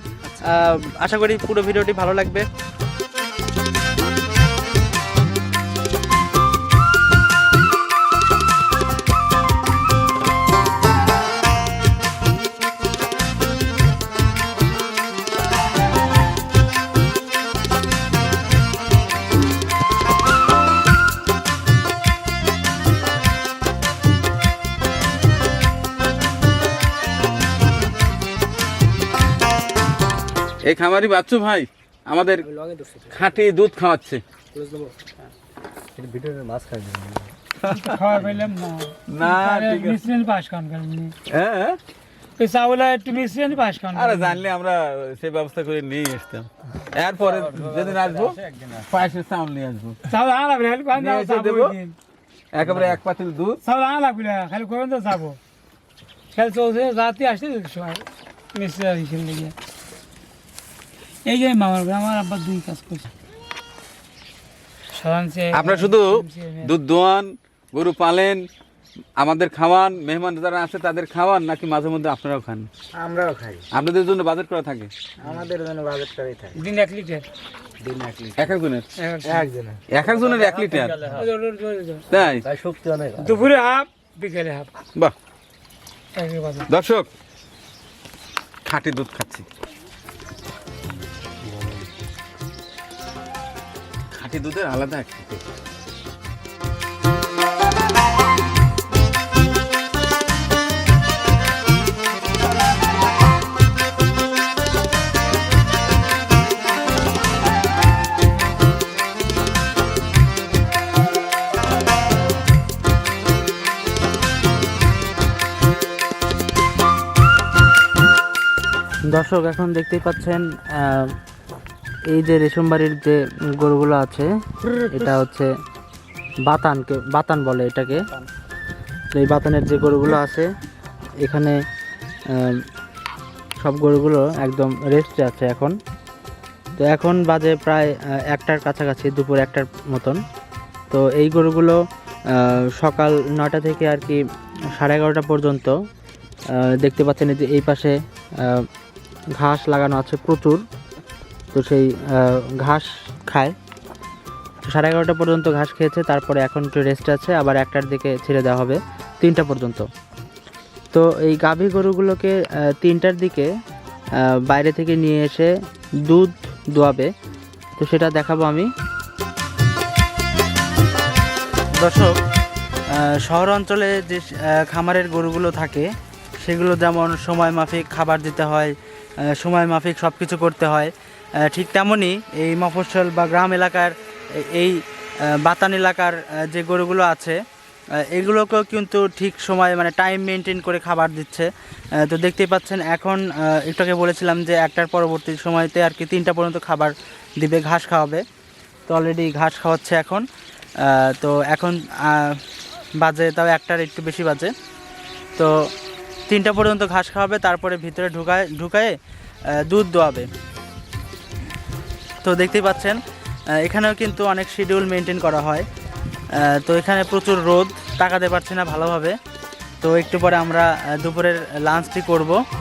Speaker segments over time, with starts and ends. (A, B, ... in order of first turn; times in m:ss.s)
0:00.4-0:02.4 A
0:30.6-0:32.4 B
0:32.4-0:33.4 C
0:33.1-0:34.2 B
0:34.5-0:34.9 C
0:36.0-0:37.3 D
0:37.6-0:38.2 B
0:37.7-0:41.1 E
0:39.1-0:40.0 B
0:41.3-0:41.8 B
0:42.4-0:44.4 E
0:43.9-0:50.0 B
0:50.1-0:51.9 E
0:50.9-0:51.8 B
0:52.5-0:53.6 B
0:53.6-0:55.4 E
0:56.3-0:59.5 E
1:01.2-1:03.1 E
1:04.9-1:06.7 E
1:05.5-1:08.5 B
1:09.2-1:12.7 B
1:13.0-1:13.6 C
1:13.7-1:14.9 B
1:15.2-1:16.5 C
1:16.5-1:17.2 E
1:17.9-1:18.2 D
1:18.3-1:18.8 B
1:19.0-1:19.5 E
1:19.2-1:19.8 C
1:19.9-1:21.1 B
1:21.1-1:22.0 E
1:22.1-1:22.4 B
1:22.3-1:23.4 D
1:23.2-1:24.7 E
1:26.2-1:26.7 E
1:26.7-1:27.1 B
1:28.6-1:29.4 B
1:31.4-1:31.8 D
1:34.1-1:35.4 B
1:59.1-2:01.2 A
2:02.1-2:05.5 A
2:06.4-2:08.1 A
2:09.1-2:10.5 A
2:11.2-2:11.6 A
2:12.3-2:12.6 A
2:13.6-2:15.8 A
2:16.8-2:20.2 A
2:20.9-2:21.8 A
2:22.3-2:25.8 A
2:26.5-2:28.7 A
2:29.4-2:30.6 A
2:31.5-2:33.5 A
2:34.6-2:39.9 A
2:40.9-2:43.5 A
2:44.2-2:45.5 A
2:46.0-2:47.1 A
2:47.8-2:48.7 A
2:51.7-2:52.2 A
2:52.9-2:55.9 A
2:56.4-2:58.7 A
2:59.2-3:00.9 A
3:01.4-3:07.4 A
3:08.0-3:11.5 A
3:12.0-3:18.2 A
3:18.9-3:20.2 A
3:20.8-3:22.4 A
3:23.0-3:24.5 A
3:25.4-3:25.7 A
3:26.3-3:29.0 A
3:29.6-3:30.3 A
3:32.2-3:33.0 A
3:33.6-3:35.6 A
3:36.4-3:39.2 A
3:39.8-3:42.4 A